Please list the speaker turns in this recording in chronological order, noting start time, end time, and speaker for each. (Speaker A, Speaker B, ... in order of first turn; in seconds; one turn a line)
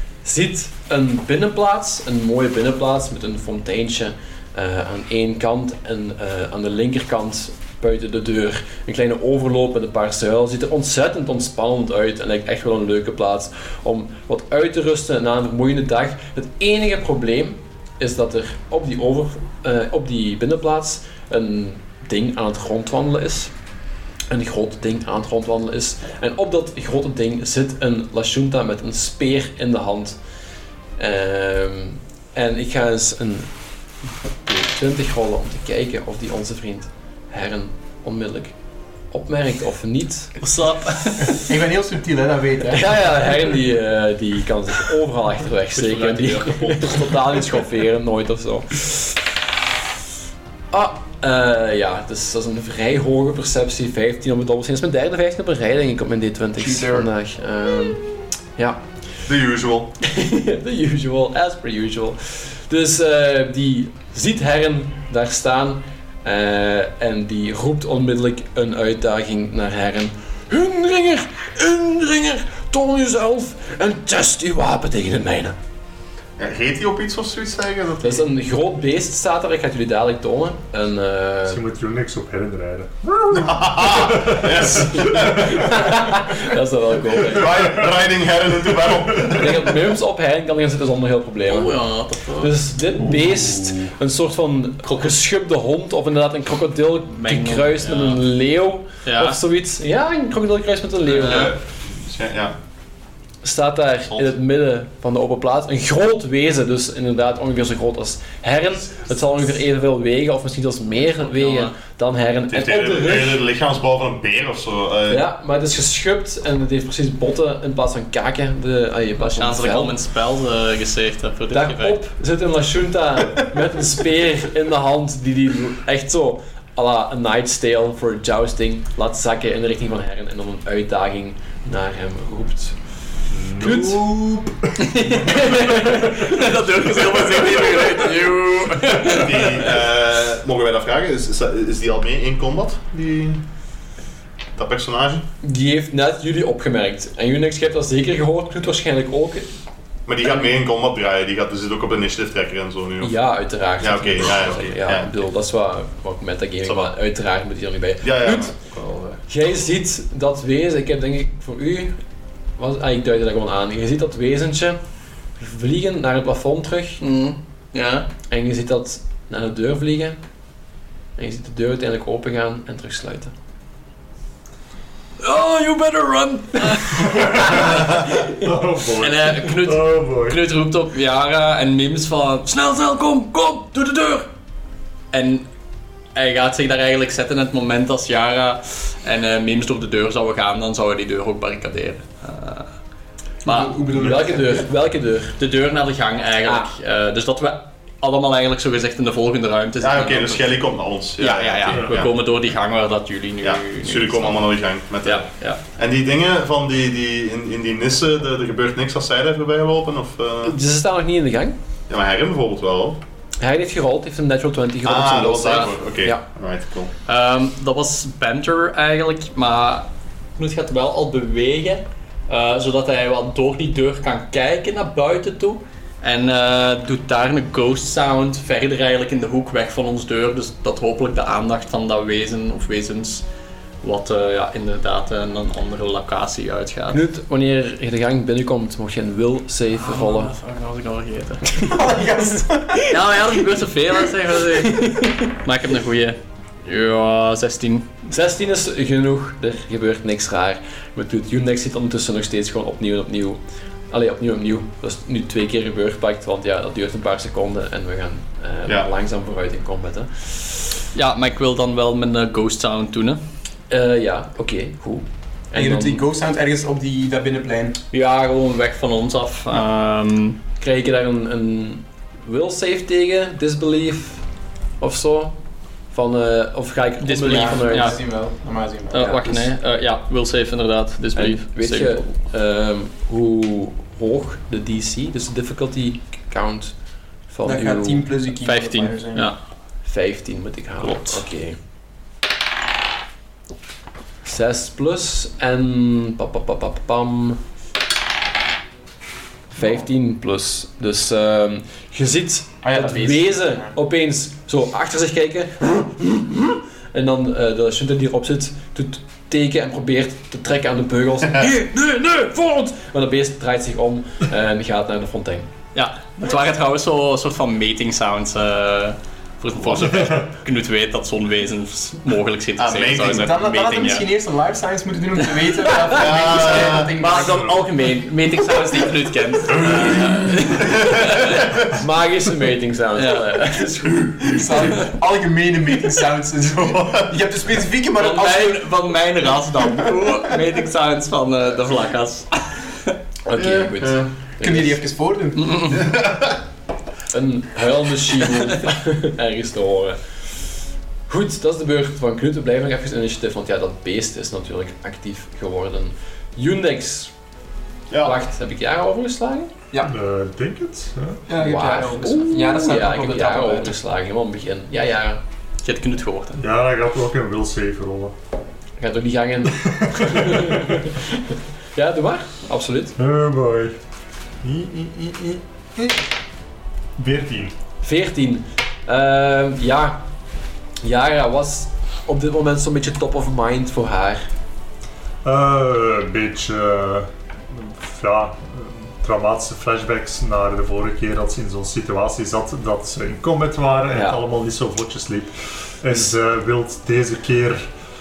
Speaker A: 0.2-23.5
Speaker A: 24.3-30.2
Speaker A: 31.0-33.5
Speaker A: 34.4-38.5
Speaker A: 39.1-40.4
Speaker B: 40.4-41.4
Speaker C: 41.3-42.9
Speaker A: 42.7-49.3
Speaker B: 45.7-47.5
Speaker A: 50.7-58.0
Speaker C: 56.6-57.1
Speaker D: 59.2-59.9
Speaker A: 60.0-75.5
Speaker D: 76.4-78.3
Speaker A: 78.0-81.6
Speaker E: 81.5-85.6
Speaker D: 83.3-85.9
Speaker A: 84.8-87.7
Speaker D: 87.2-89.8
Speaker A: 89.2-91.8
Speaker B: 91.5-92.5
Speaker A: 92.4-101.5
Speaker E: 93.0-93.8
Speaker B: 97.2-98.2
Speaker B: 99.0-99.4
Speaker D: 101.1-102.5
Speaker B: 101.2-101.5
Speaker A: 103.4-113.4
Speaker B: 111.2-111.7
Speaker D: 112.5-115.2
Speaker A: 115.1-119.9
Speaker B: 119.2-122.0
Speaker A: 121.5-132.8
Speaker E: 133.3-135.1
Speaker A: 133.5-134.1
Speaker B: 134.9-139.7
Speaker A: 135.1-136.4
Speaker E: 136.7-137.2
Speaker D: 139.0-143.4
Speaker D: 144.6-145.2
Speaker A: 145.4-149.5
Speaker D: 150.1-153.1
Speaker A: 153.0-158.5
Speaker D: 153.8-155.2
Speaker D: 156.6-156.9
Speaker D: 158.0-159.2
Speaker A: 159.3-162.0
Speaker A: 162.6-164.8
Speaker A: 165.4-167.0
Speaker B: 167.0-168.1
Speaker A: 168.3-170.2
Speaker A: 171.2-173.3
Speaker B: 175.2-177.9
Speaker E: 176.9-180.4
Speaker B: 179.0-184.3
Speaker B: 185.1-185.4
Speaker B: 186.1-192.7
Speaker B: 193.4-193.8
Speaker C: 193.4-194.6
Speaker A: 193.9-195.3
Speaker B: 195.4-200.5
Speaker D: 199.8-202.1
Speaker B: 201.2-204.4
Speaker E: 201.7-202.0
Speaker D: 203.4-210.6
Speaker B: 205.0-205.6
Speaker A: 210.4-211.6
Speaker D: 211.9-213.0
Speaker A: 213.4-216.2
Speaker D: 214.8-216.9
Speaker B: 217.1-233.2
Speaker B: 233.8-237.0
Speaker A: 236.9-240.3
Speaker B: 239.7-241.6
Speaker C: 241.6-242.9
Speaker B: 242.9-247.9
Speaker A: 244.6-245.1
Speaker A: 248.0-253.4
Speaker A: 253.9-260.6
Speaker B: 260.9-263.2
Speaker A: 263.7-266.0
Speaker C: 265.5-267.8
Speaker B: 267.9-270.4
Speaker A: 270.6-274.2
Speaker A: 274.8-275.4
Speaker A: 275.9-278.0
Speaker B: 277.0-278.0
Speaker C: 277.2-279.1
Speaker B: 278.9-282.0
Speaker A: 278.9-279.5
Speaker A: 281.1-288.1
Speaker C: 287.4-289.3
Speaker B: 288.4-289.4
Speaker A: 289.8-291.6
Speaker B: 290.8-291.2
Speaker A: 294.2-297.4
Speaker A: 299.5-315.5
Speaker C: 302.6-303.7
Speaker B: 315.7-324.1
Speaker E: 319.9-320.2
Speaker D: 322.6-323.2
Speaker C: 323.1-327.5
Speaker D: 325.9-327.0
Speaker B: 326.9-331.4
Speaker E: 327.3-327.5
Speaker C: 328.4-328.9
Speaker D: 330.5-331.8
Speaker A: 331.7-334.4
Speaker B: 332.9-333.4
Speaker C: 334.2-338.6
Speaker D: 336.6-337.1
Speaker B: 338.0-342.9
Speaker A: 343.2-344.8
Speaker D: 343.4-344.1
Speaker C: 344.4-345.8
Speaker B: 345.4-345.7
Speaker D: 345.7-346.4
Speaker A: 347.1-350.0
Speaker A: 351.1-357.1
Speaker D: 357.9-358.2
Speaker A: 358.0-359.5
Speaker E: 359.8-361.2
Speaker C: 361.3-363.7
Speaker A: 361.3-365.2
Speaker B: 365.6-366.4
Speaker E: 366.4-368.1
Speaker A: 368.8-372.9
Speaker E: 369.7-370.8
Speaker E: 373.0-373.8
Speaker E: 374.4-376.0
Speaker E: 377.0-377.5
Speaker A: 377.8-380.1
Speaker A: 380.8-384.2
Speaker E: 385.2-397.6
Speaker A: 393.9-394.2